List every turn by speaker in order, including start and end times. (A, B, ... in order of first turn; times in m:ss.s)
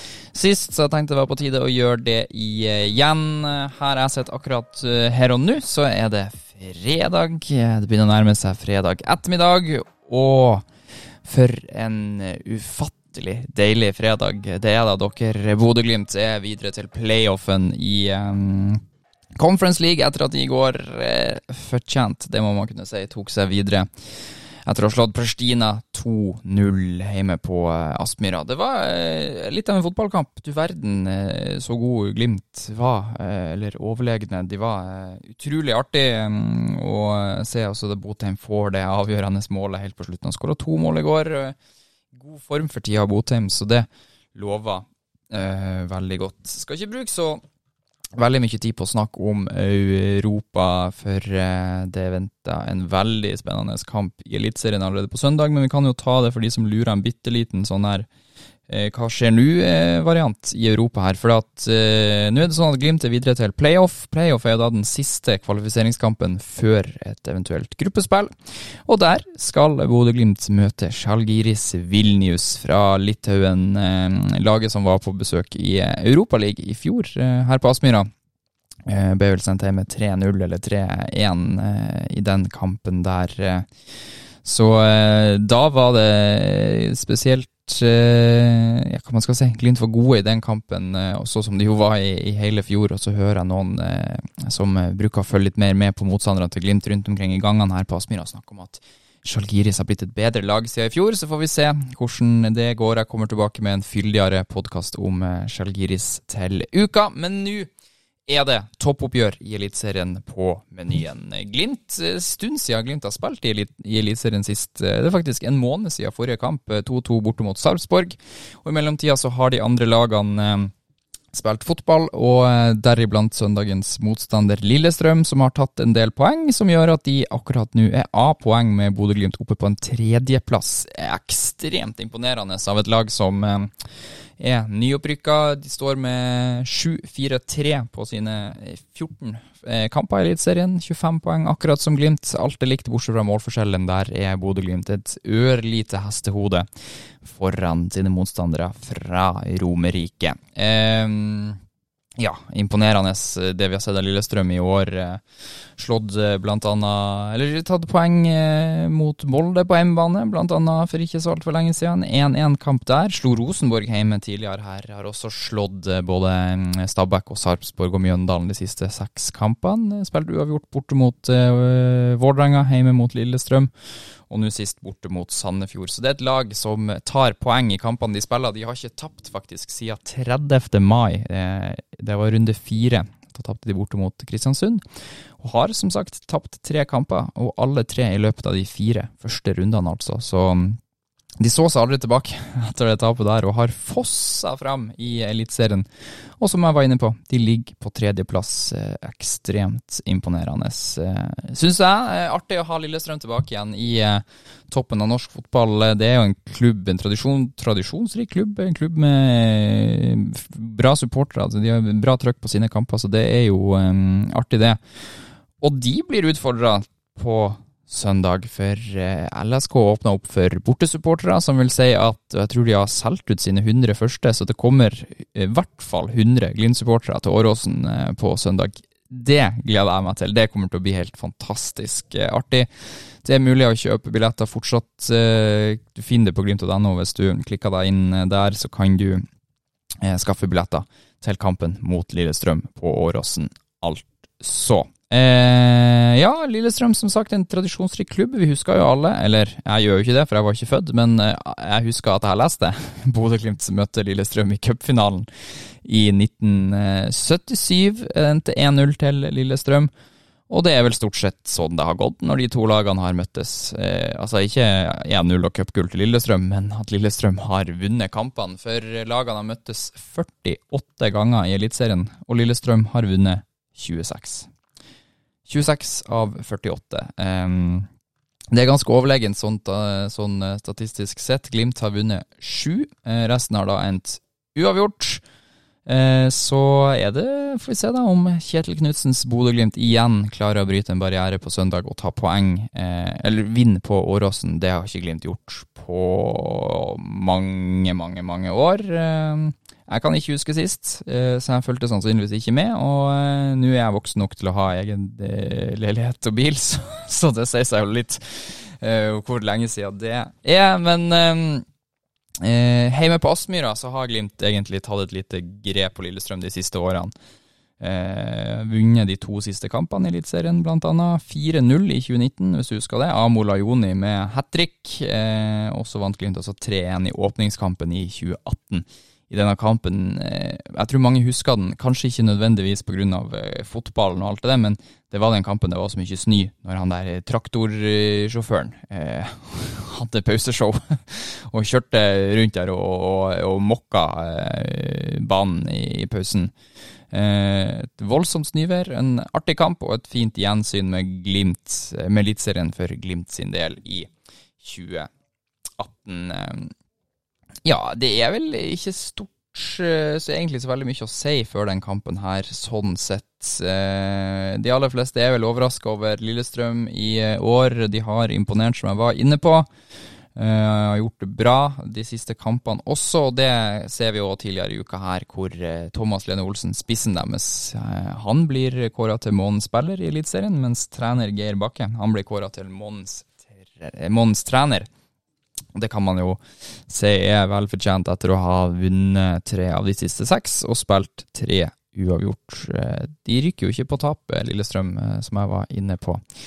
0:00.3-0:10.6 A
0:11.2-0:18.8 A
0:19.4-0:23.9 A
0:24.6-0:41.6 A
0:42.1-0:47.4 A
0:48.2-0:58.1 A
0:58.7-1:08.3 A
1:08.8-1:18.1 A
1:18.9-1:23.7 A
1:24.4-1:47.7 A
1:48.3-2:00.7 A
2:01.3-2:13.7 A
2:14.4-2:26.7 A
2:27.2-2:31.6 A
2:32.2-2:35.2 A
2:35.8-2:53.7 A
2:54.3-3:04.8 A
3:05.4-3:10.8 A
3:11.4-3:15.9 A
3:16.4-3:34.8 A
3:35.6-3:52.7 A
3:53.2-3:59.2 A
4:00.0-4:15.3 A
4:15.8-4:19.9 A
4:20.5-4:34.5 A
4:35.4-4:37.9 A
4:38.5-4:45.2 A
4:45.8-5:11.6 A
5:12.4-5:17.1 A
5:17.8-5:46.5 A
5:47.1-5:55.1 A
5:55.8-5:56.7 A
5:57.6-6:09.7 A
6:10.4-6:24.9 A
6:25.7-6:36.2 A